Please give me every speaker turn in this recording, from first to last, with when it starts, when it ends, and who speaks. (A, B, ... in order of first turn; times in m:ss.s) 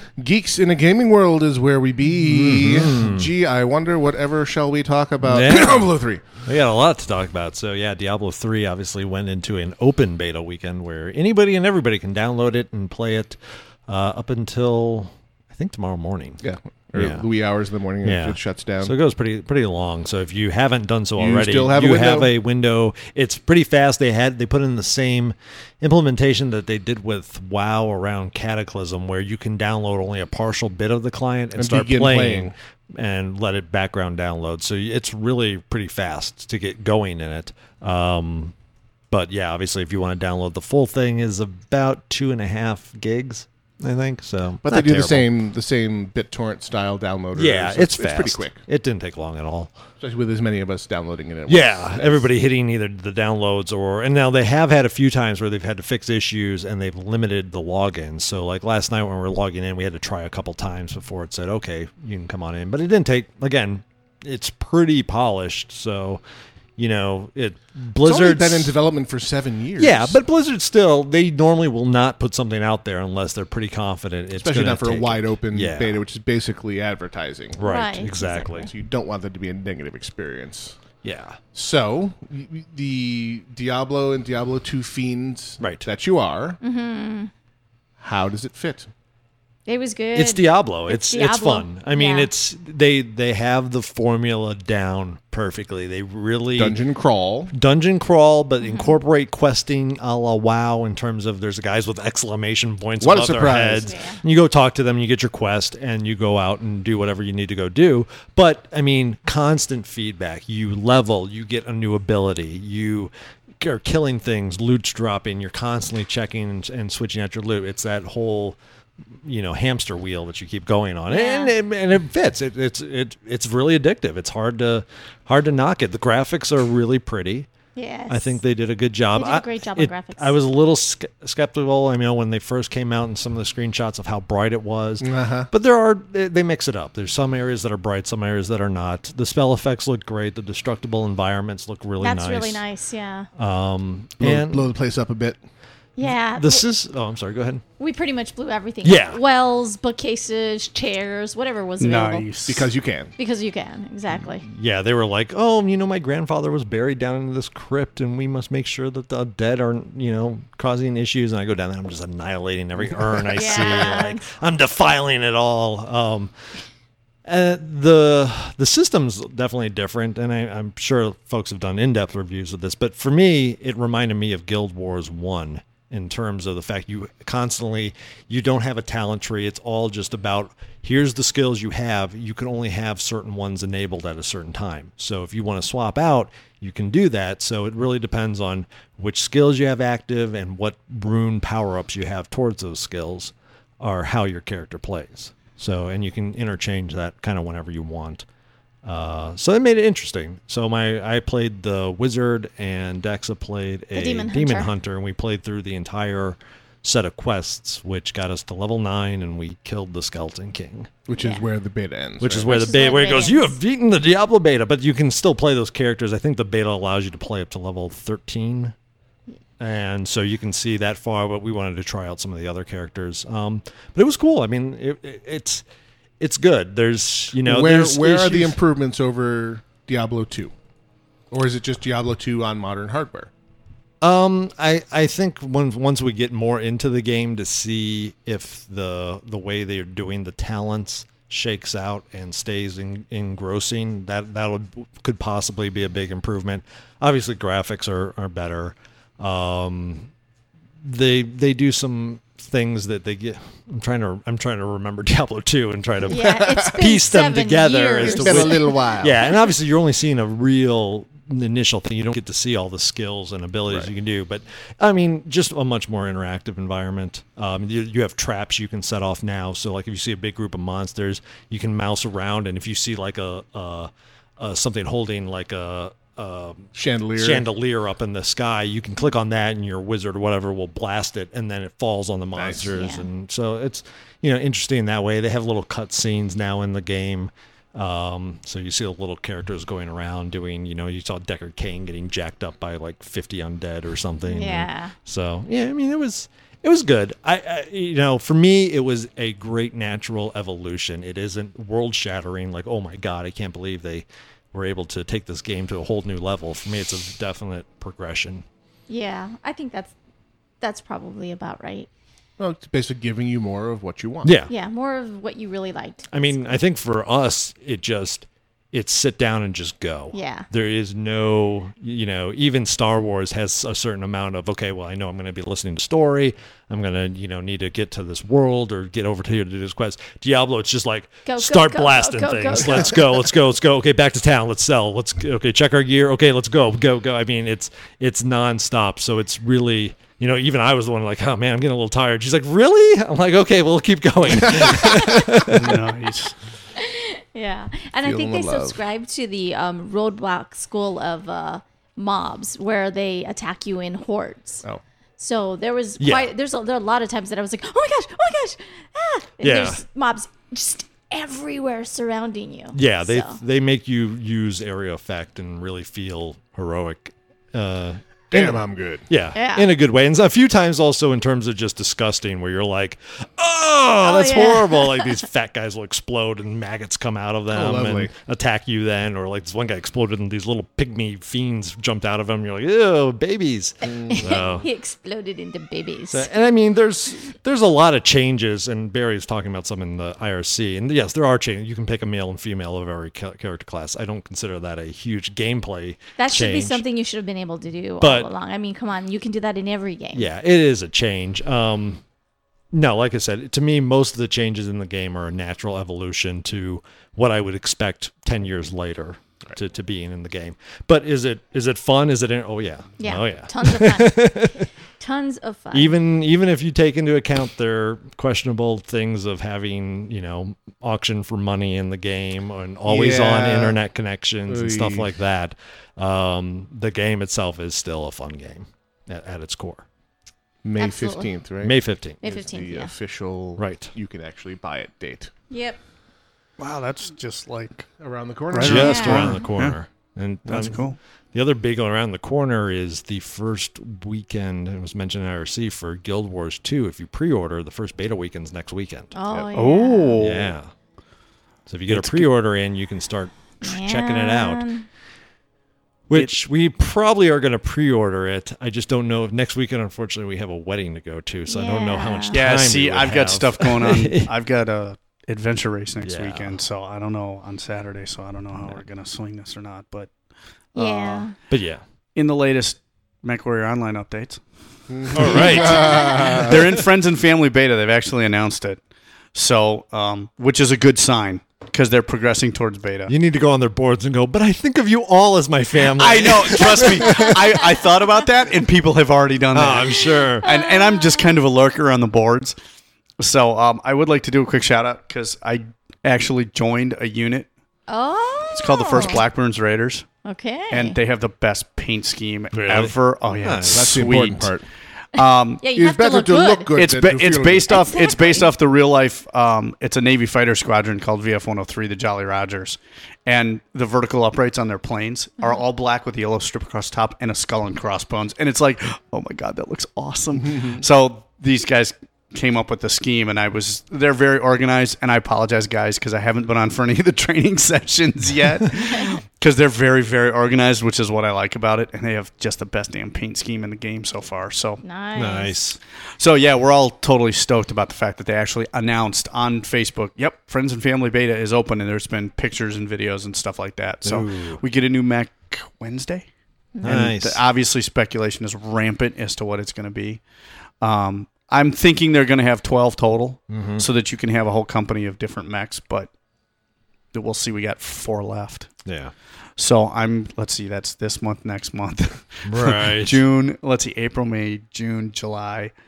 0:00.2-0:06.2 A
0:02.1-0:03.3 B
0:05.2-0:16.4 B
0:16.4-0:18.9 A
0:16.9-0:17.2 B
0:18.0-0:38.5 B
0:21.2-0:22.3 A
0:31.6-0:32.5 A
0:39.1-0:45.3 B
0:44.6-0:48.6 A
0:47.3-0:49.7 B
0:50.0-0:52.3 A
0:51.5-1:06.2 B
1:06.8-1:08.7 B
1:08.0-1:10.2 A
1:09.8-1:16.0 B
1:14.4-1:17.6 A
1:17.6-1:18.7 B
1:17.6-1:18.7 C
1:18.6-1:20.8 A
1:21.0-1:21.4 B
1:21.5-1:26.6 A
1:25.6-1:25.8 B
1:26.6-1:27.3 C
1:28.0-1:28.9 A
1:29.6-1:32.3 C
1:30.1-1:36.8 B
1:36.6-1:37.5 A
1:37.5-1:58.6 B
1:38.6-1:39.0 C
1:43.0-1:43.9 A
1:43.8-1:44.2 C
1:59.2-2:07.5 B
2:01.1-2:01.5 C
2:07.8-2:08.4 C
2:08.1-2:22.6 B
2:09.1-2:10.4 C
2:15.0-2:15.5 A
2:22.0-2:23.3 C
2:23.4-2:24.7 B
2:24.2-2:25.4 A
2:26.0-2:26.6 C
2:26.0-2:27.6 B
2:27.8-2:32.3 C
2:28.8-2:29.2 B
2:31.8-2:32.6 D
2:32.4-2:33.1 A
2:33.2-2:34.4 C
2:34.4-2:46.3 B
2:43.3-2:44.2 C
2:47.2-3:18.2 B
3:18.8-3:30.9 B
3:23.9-3:24.7 C
3:31.1-3:32.5 A
3:31.2-3:31.4 C
3:32.2-3:38.7 B
3:32.5-3:33.6 C
3:39.6-3:45.6 B
3:46.2-3:48.6 B
3:47.4-3:50.5 A
3:51.3-3:53.3 A
3:54.0-4:10.1 B
4:10.8-5:08.4 B
4:16.1-4:18.8 C
4:16.1-4:16.8 A
4:18.0-4:19.2 A
4:36.7-4:37.4 A
4:42.3-4:42.7 A
4:42.7-4:43.1 C
4:54.3-4:54.9 C
5:08.9-5:09.9 C
5:10.6-5:11.9 C
5:12.4-5:14.3 A
5:14.2-5:14.5 B
5:14.5-5:16.6 C
5:16.1-5:45.8 B
5:20.1-5:20.4 C
5:31.2-5:33.0 C
5:44.4-5:45.0 A
5:45.5-5:46.3 D
5:46.8-5:54.6 C
5:48.0-5:48.8 A
5:55.2-6:03.4 C
5:56.0-5:56.3 B
5:59.4-5:59.8 B
6:02.7-6:24.6 B
6:08.3-6:09.0 A
6:09.3-6:09.7 C
6:14.0-6:15.2 C
6:17.5-6:18.1 A
6:23.8-6:24.5 A
6:24.1-6:26.3 C
6:26.1-6:36.8 B
6:36.2-6:40.3 C
6:38.0-6:38.3 B
6:40.1-6:42.0 B
6:42.7-6:54.7 B
6:53.0-6:54.5 C
6:55.0-6:56.0 C
6:55.7-7:09.8 B
7:02.8-7:03.8 A
7:04.5-7:05.1 A
7:10.6-7:15.3 A
7:10.8-7:11.3 C
7:11.6-7:12.2 B
7:12.2-7:12.9 C
7:13.6-7:13.9 B
7:15.5-7:15.8 C
7:16.6-7:17.9 D
7:18.0-7:19.3 A
7:18.5-7:19.8 D
7:18.6-7:20.8 B
7:18.8-7:19.5 C
7:20.4-7:21.0 D
7:21.3-7:29.5 B
7:29.1-7:30.2 C
7:29.5-7:30.5 D
7:30.2-7:30.7 B
7:31.7-7:34.6 B
7:31.9-7:32.3 D
7:33.6-7:34.8 C
7:36.1-7:44.3 B
7:41.5-7:42.4 C
7:42.3-7:50.1 D
7:46.0-7:46.5 B
7:50.7-7:51.3 D
7:50.7-7:51.3 C
7:51.5-7:51.8 B
7:52.1-7:54.4 D
7:54.9-7:56.6 A
7:55.1-7:58.8 D
7:55.1-7:56.5 B
7:59.3-8:03.1 D
8:03.1-8:07.7 B
8:06.0-8:12.6 D
8:09.5-8:10.4 B
8:10.4-8:11.4 C
8:13.2-8:17.5 D
8:17.9-8:19.2 C
8:18.5-8:20.0 D
8:20.2-8:21.0 C
8:20.7-8:24.5 D
8:22.5-8:24.3 B
8:23.7-8:24.6 A
8:25.1-8:25.6 D
8:25.6-8:26.7 C
8:25.7-8:27.8 A
8:26.7-8:54.8 D
8:27.7-8:28.5 C
8:40.3-8:40.8 A
8:54.8-8:55.6 C
8:55.2-8:55.8 B
8:56.2-9:06.3 D
9:04.0-9:04.6 B
9:06.8-9:07.4 B
9:06.8-9:10.2 D
9:10.8-9:16.1 D
9:13.5-9:13.9 B
9:17.1-9:18.7 D
9:18.8-9:19.1 B
9:19.6-9:25.7 D
9:22.4-9:23.2 B